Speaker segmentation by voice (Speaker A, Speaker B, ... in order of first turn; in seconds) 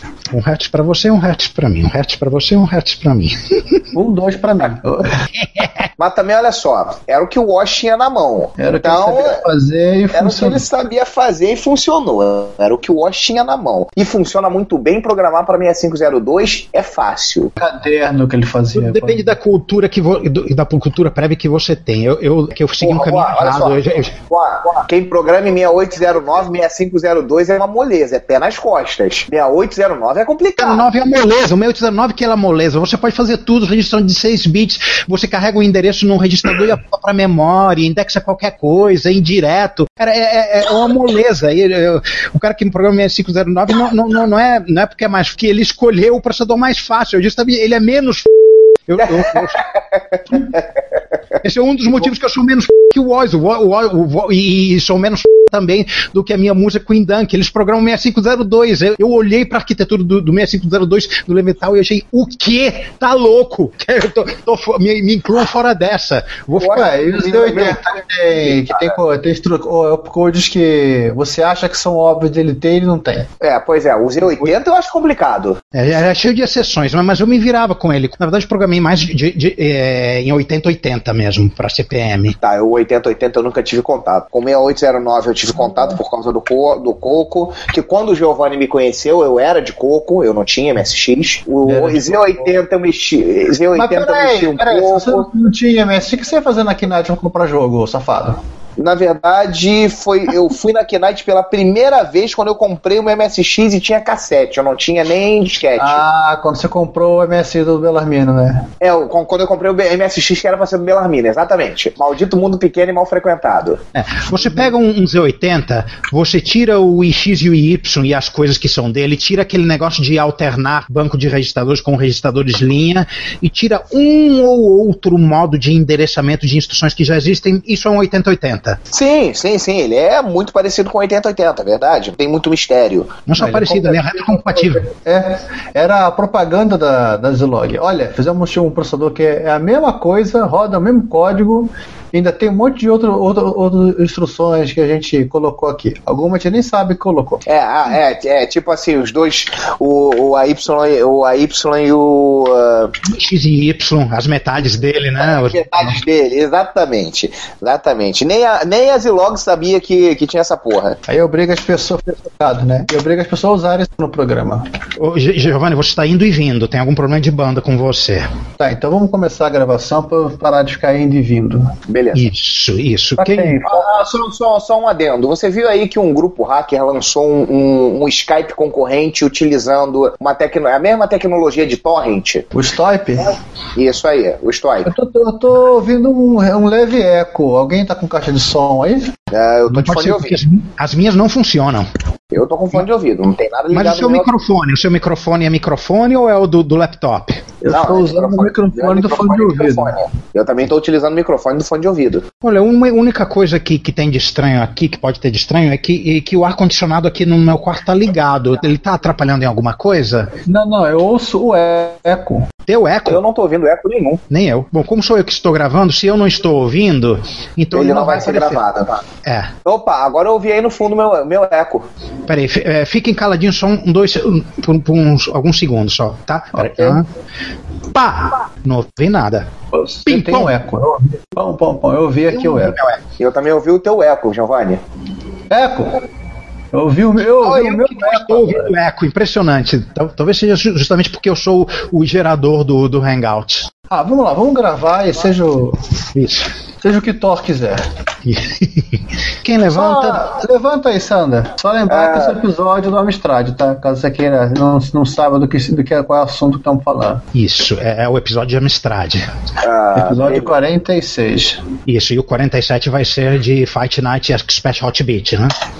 Speaker A: 0.3-3.8, 5.4-5.8, 18.7-24.1, 30.6-48.3, 48.9-49.6, 51.4-66.8, 75.7-82.3, 113.9-128.8, 133.3-134.8, 153.1-155.9, 165.0-168.3, 172.1-173.6, 189.7-191.9, 193.7-197.5, 202.4-210.3, 212.7-213.2, 214.3-218.6, 219.2-219.5, 222.3-227.0, 227.9-229.5, 230.1-230.5, 232.3-233.0, 237.4-243.7, 246.1-246.5, 248.2-248.8, 249.4-250.2, 257.3-259.2, 261.9-265.5
Speaker B: 3.9-5.2, 8.6-10.6, 17.6-19.3, 66.6-73.3, 91.6-92.6, 93.7-98.4, 105.8-108.7, 133.4-147.4, 161.1-164.7, 168.6-171.7, 173.2-173.9, 182.5-183.3, 184.8-189.1, 197.6-200.0, 210.4-212.5, 226.6-226.9, 229.7-232.8, 235.5-235.9, 236.7-238.7, 243.9-245.8, 246.8-247.8, 249.7-257.2, 259.9-261.6
Speaker C: 6.0-9.4, 10.1-17.5, 22.8-30.9, 49.0-49.6, 50.3-50.6, 66.6-67.8, 68.4-68.9, 73.4-75.6, 82.4-95.3, 98.8-106.0, 108.8-113.8, 128.9-133.2, 147.4-152.9, 155.2-161.0, 171.9-172.3, 173.6-182.4, 183.8-184.9, 189.3-190.4, 192.3-194.3, 197.7-202.2, 213.1-214.2, 217.7-219.0, 219.6-221.8, 233.2-234.8, 251.9-252.4, 259.6-260.5